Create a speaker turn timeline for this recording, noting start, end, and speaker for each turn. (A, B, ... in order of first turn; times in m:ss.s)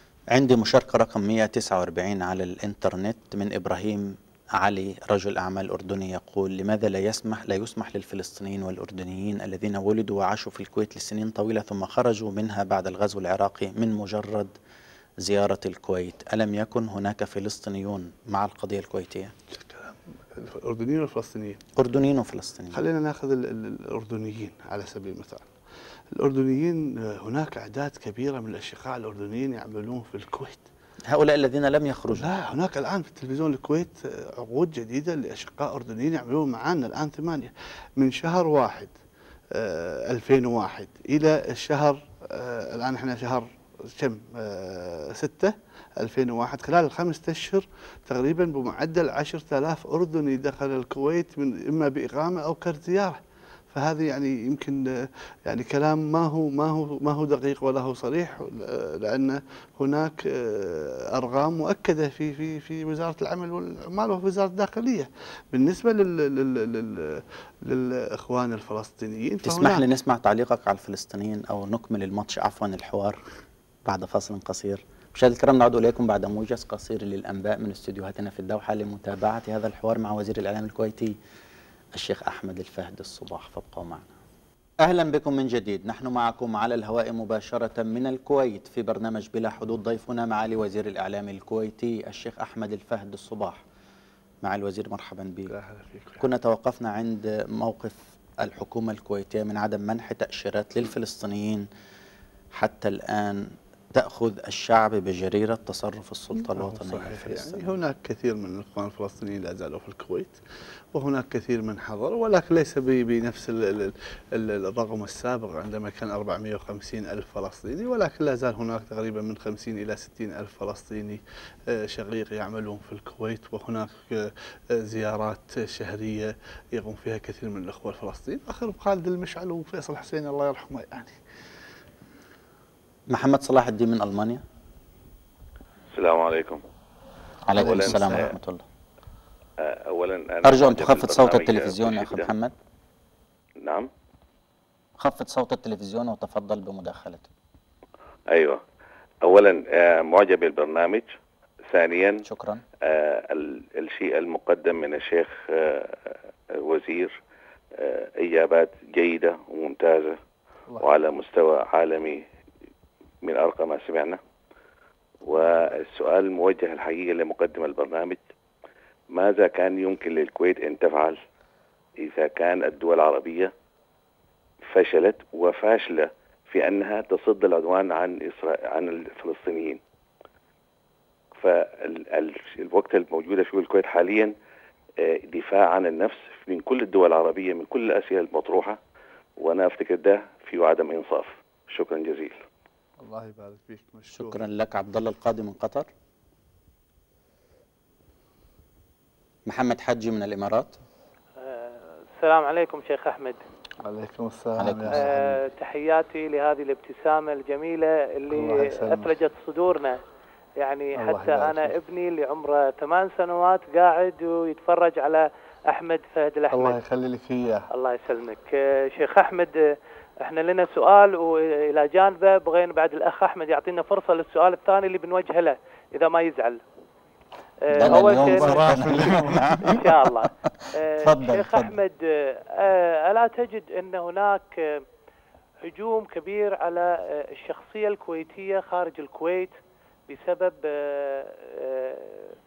0:00.3-0:14.5 A
0:15.2-0:19.3 A
0:19.5-0:21.6 B
0:21.8-0:22.8 A
0:22.7-0:25.5 B
0:26.1-0:30.7 B
0:31.1-0:32.3 A
0:32.1-0:38.9 B
0:39.5-0:53.2 B
0:53.7-1:09.8 B
1:09.4-1:13.2 A
1:13.8-1:21.2 A
1:22.0-1:24.1 A
1:24.8-1:33.6 A
1:34.4-1:35.5 A
1:35.5-1:36.3 B
1:36.2-1:41.7 A
1:42.5-1:47.8 A
1:46.4-1:50.4 B
1:50.9-2:11.2 B
2:13.1-2:14.4 A
2:15.9-2:16.6 C
2:17.5-2:18.6 A
2:17.6-2:18.3 C
2:17.6-2:18.2 B
2:19.6-2:22.3 C
2:20.4-2:22.5 A
2:23.6-2:23.9 C
2:25.0-2:27.3 A
2:28.3-2:28.6 C
2:29.2-2:31.1 C
2:31.7-2:32.2 C
2:32.2-2:32.6 A
2:32.8-2:37.2 C
2:37.8-2:40.2 C
2:40.8-2:42.2 C
2:43.2-2:44.2 C
2:45.2-2:48.3 C
2:49.1-2:51.2 C
2:52.0-2:53.5 C
2:54.7-2:59.8 C
3:01.4-3:04.3 C
3:05.0-3:08.8 C
3:09.4-3:12.4 C
3:13.0-3:14.4 B
3:14.1-3:15.9 A
3:19.5-3:20.8 A
3:21.4-3:23.4 D
3:23.8-3:25.4 B
3:24.6-3:25.1 A
3:25.0-3:30.0 D
3:28.3-3:29.1 B
3:30.6-3:36.8 D
3:31.0-3:31.8 B
3:36.5-3:37.7 B
3:37.7-3:46.6 D
3:47.7-3:54.8 D
3:47.8-3:49.9 A
3:47.8-3:49.8 B
3:51.0-3:51.8 A
3:55.6-3:59.5 D
4:00.1-4:02.3 D